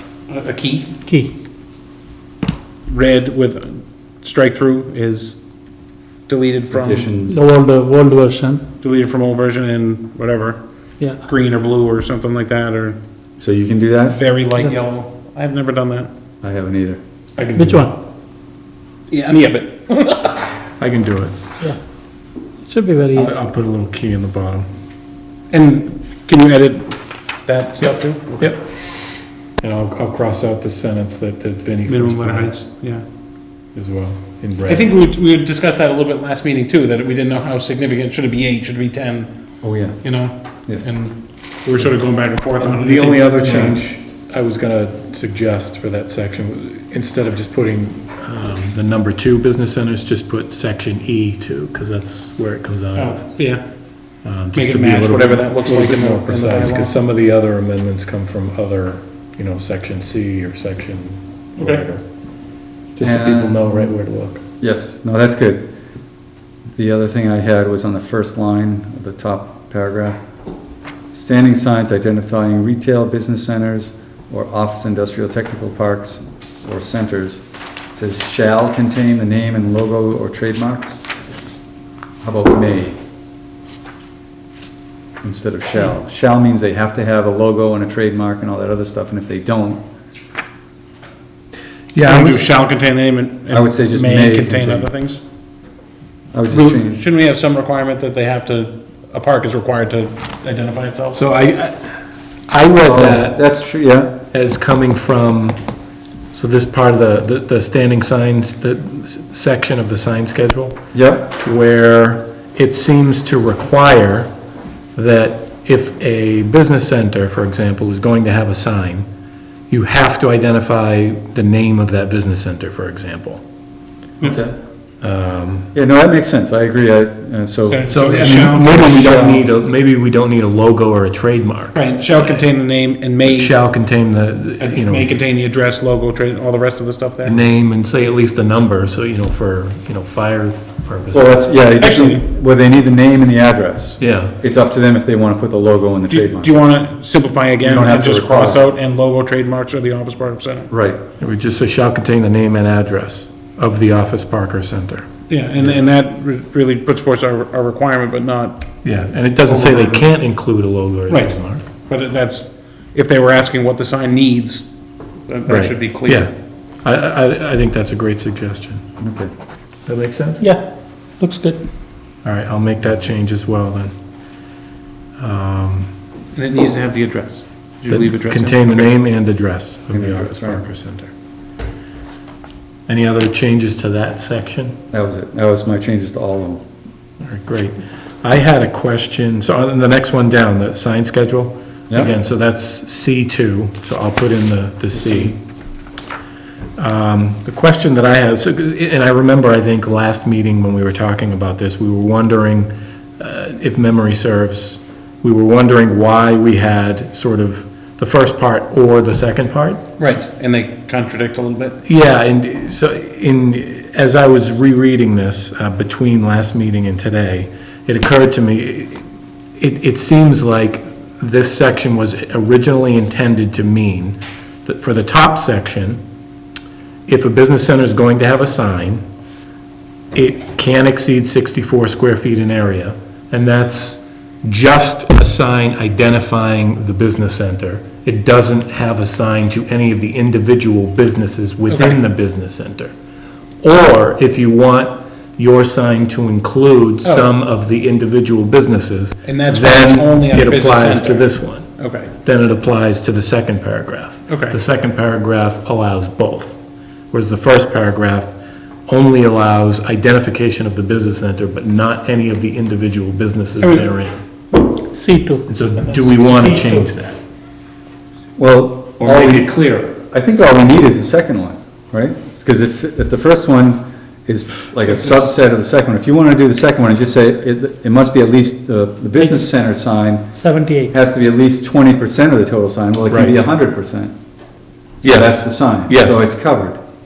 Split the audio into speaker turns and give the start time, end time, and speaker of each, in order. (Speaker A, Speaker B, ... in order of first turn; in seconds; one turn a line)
Speaker A: 0.3-0.9
Speaker B: 1.0-1.3
Speaker A: 2.9-5.3
Speaker A: 6.3-7.1
Speaker C: 6.7-7.4
Speaker B: 7.3-8.6
Speaker A: 8.8-10.6
Speaker A: 11.2-13.0
Speaker C: 13.4-14.2
Speaker A: 14.1-16.1
Speaker C: 16.4-17.0
Speaker D: 17.4-17.9
Speaker B: 17.6-17.9
Speaker A: 19.1-20.5
Speaker D: 20.8-21.4
Speaker B: 22.7-23.3
Speaker D: 23.1-24.7
Speaker A: 25.5-28.5
Speaker D: 28.4-28.6
Speaker D: 29.6-32.5
Speaker A: 31.9-33.0
Speaker D: 33.7-34.9
Speaker A: 34.7-39.3
Speaker C: 39.6-40.0
Speaker A: 40.0-43.8
Speaker C: 40.7-40.9
Speaker D: 42.6-53.3
Speaker A: 53.0-53.6
Speaker D: 54.2-62.0
Speaker A: 54.5-56.9
Speaker A: 61.6-61.8
Speaker D: 63.0-64.4
Speaker C: 63.0-63.9
Speaker C: 64.6-65.7
Speaker C: 66.8-70.2
Speaker C: 71.1-81.0
Speaker C: 82.2-83.0
Speaker C: 85.2-89.8
Speaker D: 91.9-92.5
Speaker A: 92.0-95.2
Speaker C: 93.5-94.9
Speaker C: 96.3-97.0
Speaker A: 96.5-101.2
Speaker D: 101.1-101.8
Speaker D: 102.5-103.4
Speaker C: 102.8-104.2
Speaker D: 104.3-105.6
Speaker D: 106.3-110.8
Speaker C: 110.9-111.3
Speaker D: 111.4-114.3
Speaker D: 114.9-119.1
Speaker D: 119.7-123.4
Speaker C: 124.2-124.5
Speaker D: 125.0-125.7
Speaker C: 125.7-128.4
Speaker A: 127.7-129.4
Speaker D: 127.9-132.4
Speaker C: 129.0-129.4
Speaker A: 131.7-133.5
Speaker D: 133.2-135.2
Speaker A: 134.6-137.5
Speaker D: 137.2-141.4
Speaker C: 141.1-146.5
Speaker A: 141.8-142.2
Speaker D: 144.0-144.3
Speaker A: 146.1-150.7
Speaker C: 147.6-148.6
Speaker C: 150.7-151.0
Speaker D: 151.2-155.1
Speaker A: 155.3-158.7
Speaker D: 158.8-161.6
Speaker A: 159.4-160.1
Speaker A: 161.1-161.4
Speaker A: 161.9-164.6
Speaker A: 165.3-166.3
Speaker D: 165.5-166.3
Speaker D: 166.8-168.8
Speaker C: 169.0-169.3
Speaker D: 169.8-170.5
Speaker B: 170.4-170.6
Speaker B: 171.2-171.6
Speaker D: 172.2-173.9
Speaker D: 175.2-175.9
Speaker A: 176.3-178.9
Speaker D: 177.9-181.1
Speaker C: 179.9-180.6
Speaker D: 182.9-184.8
Speaker C: 184.9-186.6
Speaker D: 187.2-195.4
Speaker D: 196.8-209.8
Speaker A: 210.0-211.8
Speaker D: 211.8-219.0
Speaker D: 219.6-226.0
Speaker D: 227.1-229.0
Speaker D: 230.1-242.9
Speaker A: 241.7-242.0
Speaker D: 243.6-251.7
Speaker A: 247.0-247.3
Speaker A: 249.2-252.1
Speaker D: 252.2-258.3
Speaker A: 254.3-254.6
Speaker D: 258.9-264.2
Speaker A: 263.6-263.9
Speaker B: 264.7-265.4
Speaker D: 265.5-267.2
Speaker A: 265.9-266.2
Speaker C: 268.4-280.3
Speaker D: 269.0-270.0
Speaker B: 280.3-280.9
Speaker C: 280.9-284.1
Speaker D: 283.1-283.4
Speaker D: 285.0-286.3
Speaker C: 285.0-286.8